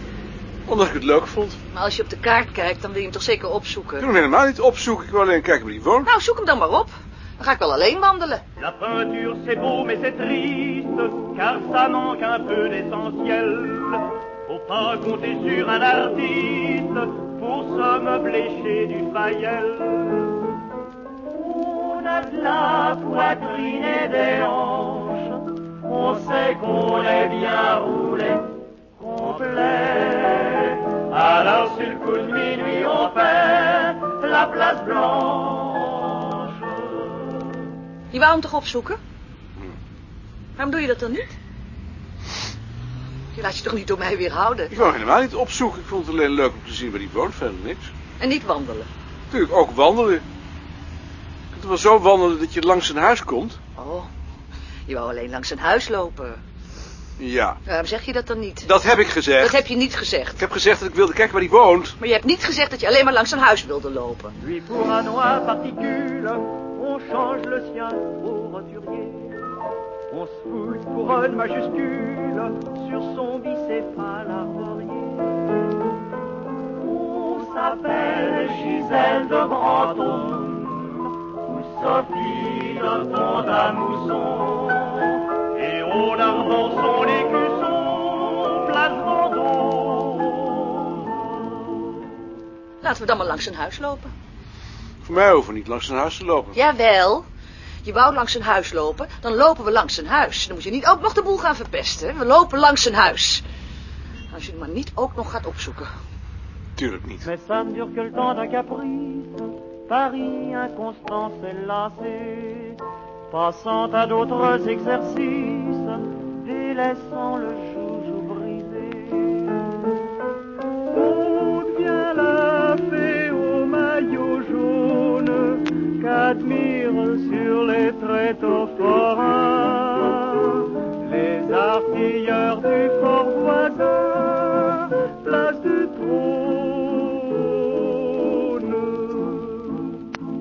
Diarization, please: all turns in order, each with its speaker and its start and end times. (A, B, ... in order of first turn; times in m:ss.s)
0:00.7-0:01.6 A
0:01.7-0:04.0 B
0:04.0-0:06.1 A
0:06.1-0:08.4 B
0:08.6-0:20.6 C
0:21.3-0:37.6 C
0:38.1-0:39.0 B
0:40.6-0:41.4 B
0:43.3-0:44.8 B
0:44.7-0:47.9 A
0:48.2-0:48.9 B
0:49.3-0:50.2 A
0:51.5-0:53.6 A
0:53.8-0:54.1 B
0:54.9-0:56.4 B
0:57.2-0:57.6 A
0:57.7-0:58.7 B
0:58.6-0:59.7 A
0:59.4-1:00.4 B
1:00.4-1:02.0 A
1:02.0-1:04.3 B
1:04.4-1:09.6 C
1:10.1-1:15.5 C
1:16.8-1:32.1 C
1:32.8-1:34.1 B
1:35.0-1:36.6 A
1:36.6-1:37.3 B
1:37.8-1:43.4 B
1:44.3-1:45.9 B
1:46.8-1:47.3 A
1:47.2-1:52.8 C
1:53.3-1:59.8 C
2:00.9-2:19.8 C